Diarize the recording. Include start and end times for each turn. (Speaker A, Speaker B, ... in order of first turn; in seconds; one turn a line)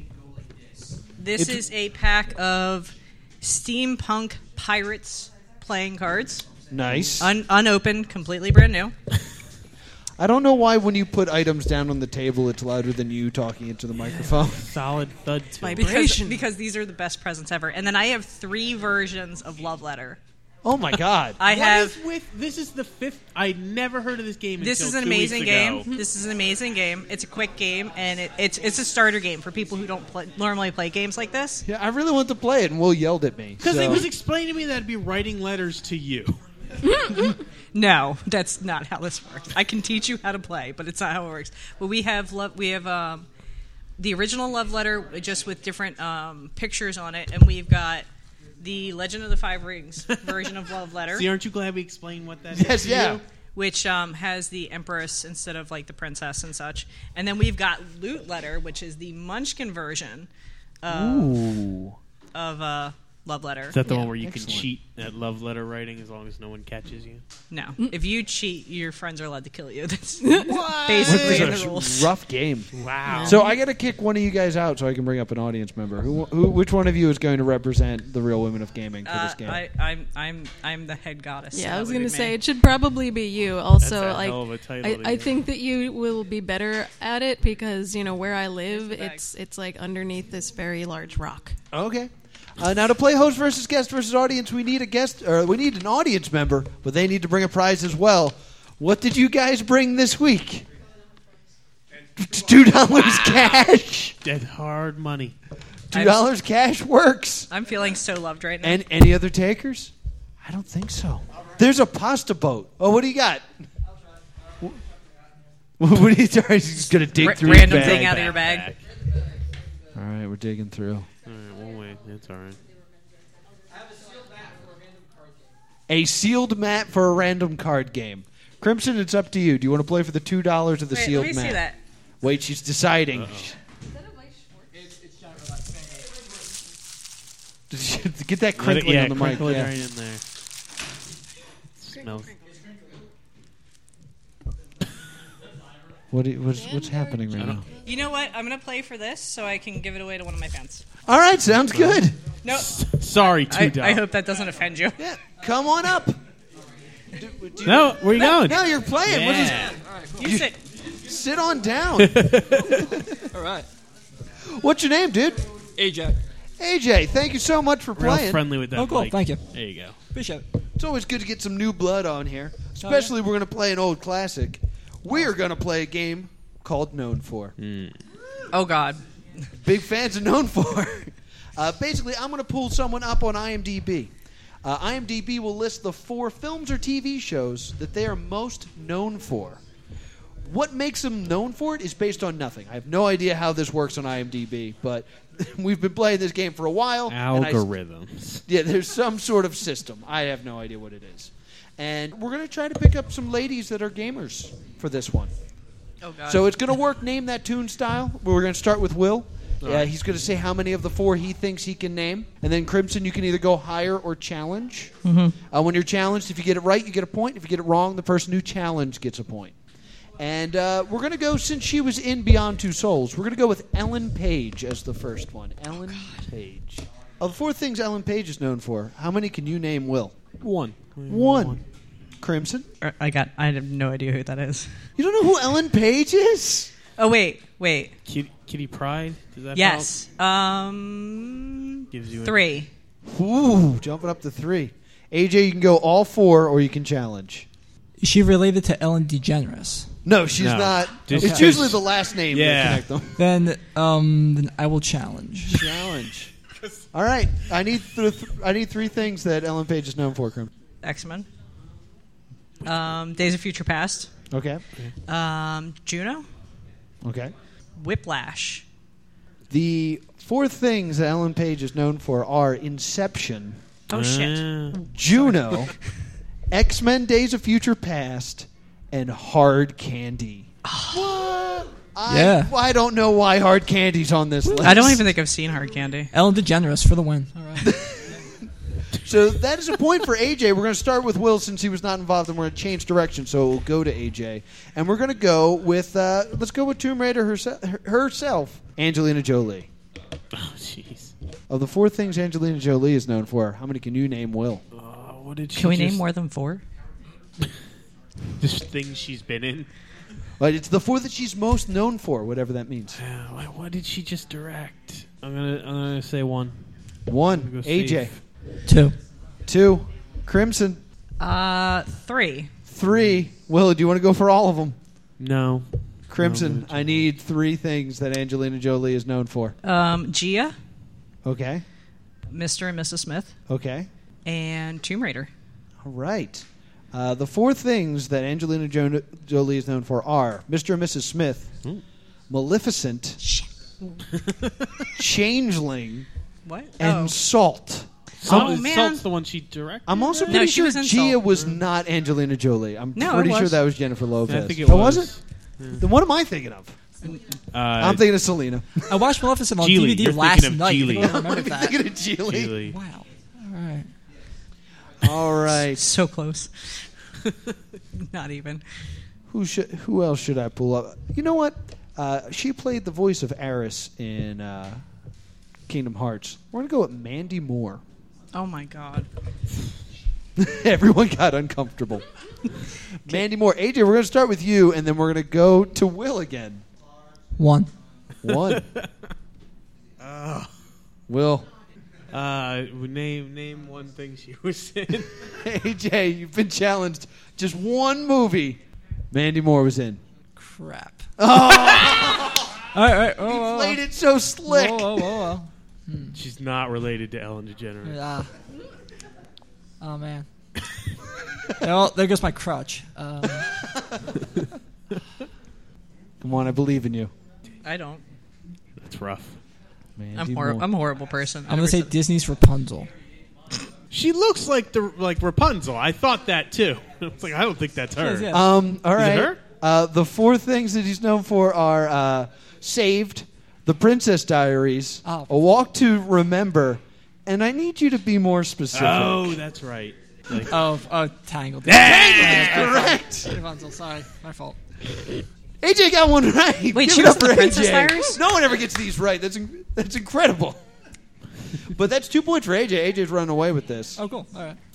Speaker A: 1.2-6.5
Speaker B: 1.4-1.6
Speaker B: 6.7-7.3
Speaker A: 7.2-8.9
Speaker B: 10.2-14.7
Speaker C: 14.0-15.9
Speaker D: 15.6-16.4
Speaker A: 15.8-20.2
Speaker B: 20.6-21.4
Speaker A: 21.4-22.0
Speaker C: 21.4-25.9
Speaker A: 24.6-31.6
Speaker B: 31.6-34.1
Speaker C: 33.6-36.4
Speaker D: 36.8-37.4
Speaker A: 36.9-43.3
Speaker A: 44.0-48.0
Speaker A: 48.6-51.3
Speaker C: 50.1-50.4
Speaker C: 51.1-53.2
Speaker B: 52.5-53.2
Speaker A: 53.5-60.3
Speaker A: 60.8-61.4
Speaker B: 60.9-62.0
Speaker A: 62.3-64.1
Speaker C: 63.7-67.2
Speaker B: 64.2-64.7
Speaker A: 67.5-72.1
Speaker D: 70.2-71.0
Speaker B: 71.0-72.7
Speaker C: 71.0-71.5
Speaker C: 72.7-73.4
Speaker D: 73.1-73.5
Speaker B: 73.2-79.6
Speaker A: 79.0-82.4
Speaker D: 81.5-91.6
Speaker C: 83.8-85.3
Speaker A: 88.7-89.2
Speaker B: 91.7-100.7
Speaker B: 102.2-104.2
Speaker C: 102.9-103.6
Speaker C: 104.2-105.3
Speaker B: 105.9-107.5
Speaker A: 105.9-106.2
Speaker A: 107.5-108.8
Speaker B: 108.6-109.9
Speaker B: 110.4-113.5
Speaker B: 115.8-118.3
Speaker A: 117.2-118.7
Speaker C: 117.3-118.8
Speaker B: 119.9-121.1
Speaker C: 121.2-122.6
Speaker B: 125.9-131.6
Speaker A: 130.9-131.8
Speaker B: 132.2-133.6
Speaker C: 133.1-133.5
Speaker B: 137.7-139.8
Speaker C: 138.6-140.2
Speaker C: 141.8-142.3
Speaker B: 146.1-147.6
Speaker D: 146.7-147.5
Speaker C: 147.4-147.6
Speaker A: 147.7-150.8
Speaker B: 151.1-152.2
Speaker C: 151.7-154.0
Speaker A: 152.4-152.7
Speaker A: 153.4-155.0
Speaker B: 155.0-156.2
Speaker B: 157.1-160.5
Speaker C: 157.6-159.8
Speaker E: 159.8-160.2
Speaker A: 160.2-160.6
Speaker B: 161.0-163.3
Speaker C: 162.0-162.9
Speaker E: 163.3-163.7
Speaker B: 164.4-165.4
Speaker E: 165.8-166.2
Speaker B: 166.6-168.4
Speaker C: 167.9-170.0
Speaker E: 168.7-169.6
Speaker E: 170.1-170.4
Speaker B: 170.8-177.6
Speaker E: 172.8-173.1
Speaker C: 177.6-178.0
Speaker A: 178.5-179.5
Speaker B: 179.6-184.1
Speaker B: 184.6-189.6
Speaker B: 190.4-197.6
Speaker C: 197.1-198.4
Speaker B: 198.5-205.3
Speaker A: 206.0-206.5
Speaker B: 206.2-214.9
Speaker C: 209.6-209.9
Speaker A: 215.0-215.3
Speaker B: 215.5-219.5
Speaker B: 220.2-230.3
Speaker A: 225.9-226.2
Speaker C: 230.3-231.6
Speaker B: 231.1-231.6
Speaker B: 232.2-232.7
Speaker A: 232.8-234.8
Speaker B: 235.0-236.7
Speaker A: 237.0-237.9
Speaker C: 238.1-239.9
Speaker A: 239.5-242.7
Speaker C: 241.9-242.4
Speaker B: 243.0-247.5
Speaker E: 248.0-249.9
Speaker B: 250.0-253.2
Speaker C: 250.4-252.9
Speaker E: 251.1-251.6
Speaker E: 253.2-255.8
Speaker B: 255.5-256.3
Speaker B: 256.9-260.5
Speaker A: 260.8-261.3
Speaker A: 262.6-264.1
Speaker B: 264.3-264.6
Speaker A: 265.1-266.2
Speaker B: 267.0-267.3
Speaker A: 267.8-268.6
Speaker B: 269.5-273.6
Speaker A: 273.9-274.8
Speaker C: 273.9-274.8
Speaker B: 274.8-275.7
Speaker B: 276.5-285.0
Speaker A: 280.6-281.1
Speaker E: 282.1-282.5
Speaker A: 284.6-286.1
Speaker E: 286.1-287.7
Speaker B: 287.6-299.7
Speaker C: 300.3-301.1
Speaker B: 301.5-304.6
Speaker C: 304.7-306.0
Speaker A: 305.5-306.6
Speaker C: 308.4-309.7
Speaker B: 310.4-313.0
Speaker C: 313.0-316.6
Speaker B: 317.1-318.1
Speaker C: 317.4-318.1
Speaker E: 318.6-318.9
Speaker B: 319.4-320.8
Speaker A: 321.2-322.5
Speaker B: 322.7-324.8
Speaker C: 325.2-327.0
Speaker B: 326.1-329.6
Speaker A: 329.6-330.6
Speaker B: 331.2-331.6
Speaker A: 332.3-333.3
Speaker B: 333.5-333.9
Speaker A: 334.2-335.3
Speaker B: 335.8-341.6
Speaker B: 342.3-343.2
Speaker A: 343.2-344.0
Speaker C: 344.1-344.9
Speaker B: 344.9-346.1
Speaker A: 346.4-347.1
Speaker B: 346.8-347.9
Speaker C: 348.2-350.5
Speaker A: 348.2-349.0
Speaker B: 349.9-355.1
Speaker A: 350.3-351.2
Speaker A: 352.9-353.6
Speaker C: 354.2-355.9
Speaker B: 355.8-356.8
Speaker C: 357.5-358.0
Speaker B: 357.8-358.8
Speaker E: 358.9-361.8
Speaker C: 359.6-361.2
Speaker B: 360.9-362.6
Speaker C: 362.3-362.8
Speaker E: 362.6-363.9
Speaker B: 365.0-365.9
Speaker A: 365.5-366.9
Speaker A: 368.0-368.6
Speaker B: 369.3-374.8
Speaker B: 375.7-377.8
Speaker A: 378.3-379.1
Speaker B: 380.4-382.0
Speaker B: 383.0-386.6
Speaker E: 387.4-387.7
Speaker B: 388.2-388.6
Speaker C: 388.5-388.9
Speaker C: 390.0-390.5
Speaker B: 391.1-391.5
Speaker C: 392.1-395.2
Speaker B: 395.4-400.0
Speaker E: 400.4-401.1
Speaker B: 401.2-405.3
Speaker E: 402.7-403.8
Speaker E: 404.4-406.2
Speaker C: 406.1-408.0
Speaker E: 407.8-408.3
Speaker E: 409.8-410.3
Speaker E: 411.6-413.5
Speaker B: 416.2-417.1
Speaker A: 417.6-418.0
Speaker C: 418.8-419.4
Speaker B: 420.0-420.7
Speaker A: 420.1-421.9
Speaker E: 421.5-422.9
Speaker C: 423.9-428.3
Speaker E: 427.9-428.6
Speaker B: 428.3-439.4
Speaker C: 428.9-429.4
Speaker C: 438.7-440.5
Speaker E: 440.4-444.6
Speaker C: 441.7-442.7
Speaker B: 441.7-443.3
Speaker B: 445.6-450.6
Speaker A: 446.7-448.2
Speaker B: 451.6-454.0
Speaker E: 454.0-454.6